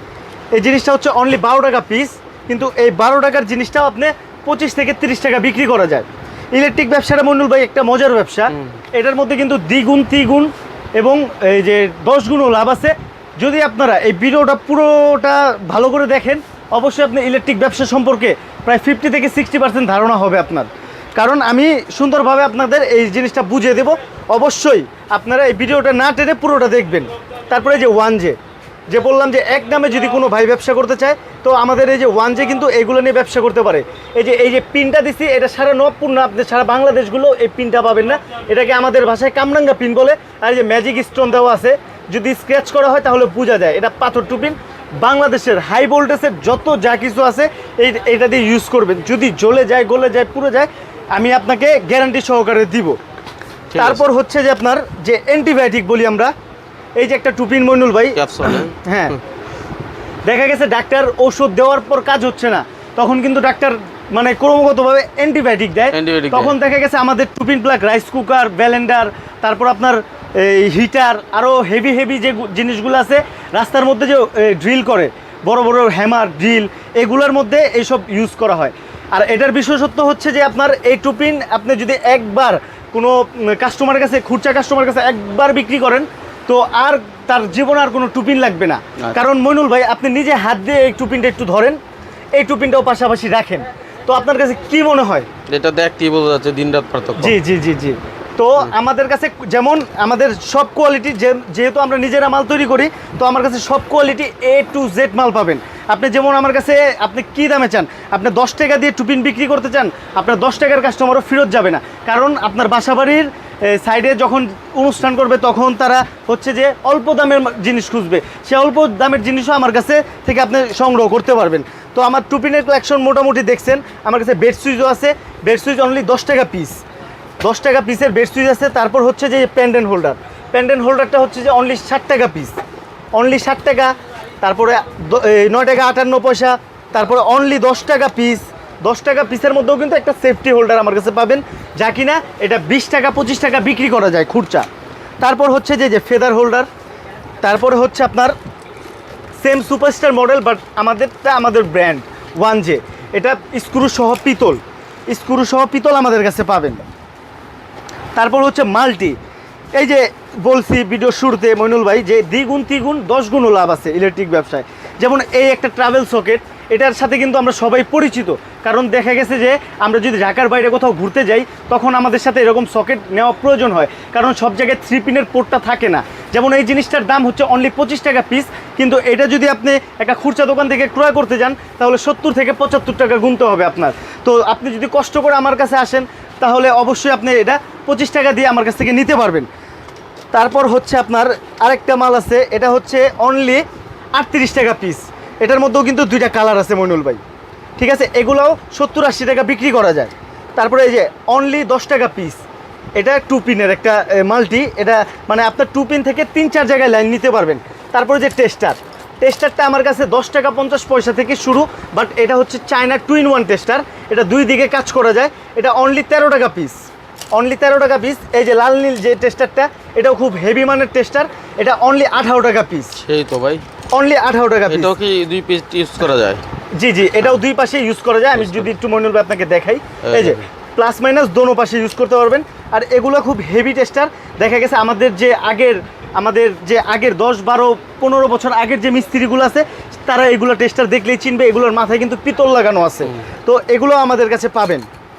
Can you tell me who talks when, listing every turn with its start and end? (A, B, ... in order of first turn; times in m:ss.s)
0:00.5-0:28.4 A
0:28.9-0:53.0 A
0:53.7-0:54.0 B
0:53.8-0:56.3 A
0:57.0-0:59.2 A
0:58.1-0:58.8 B
1:00.2-1:31.8 A
1:05.9-1:06.6 B
1:32.3-1:35.3 A
1:35.5-1:37.4 B
1:37.2-2:06.8 A
2:07.4-2:12.6 A
2:13.1-2:24.7 A
2:25.2-2:26.7 A
2:27.4-2:28.3 A
2:29.4-2:36.8 A
2:38.2-2:39.2 A
2:39.7-3:09.5 A
3:10.3-3:13.6 A
3:14.1-3:17.2 A
3:17.8-3:22.4 A
3:23.0-3:43.0 A
3:43.0-3:43.6 B
3:43.9-3:44.9 A
3:44.7-3:46.4 B
3:46.7-4:04.8 A
3:48.4-3:48.7 B
3:50.0-3:50.4 B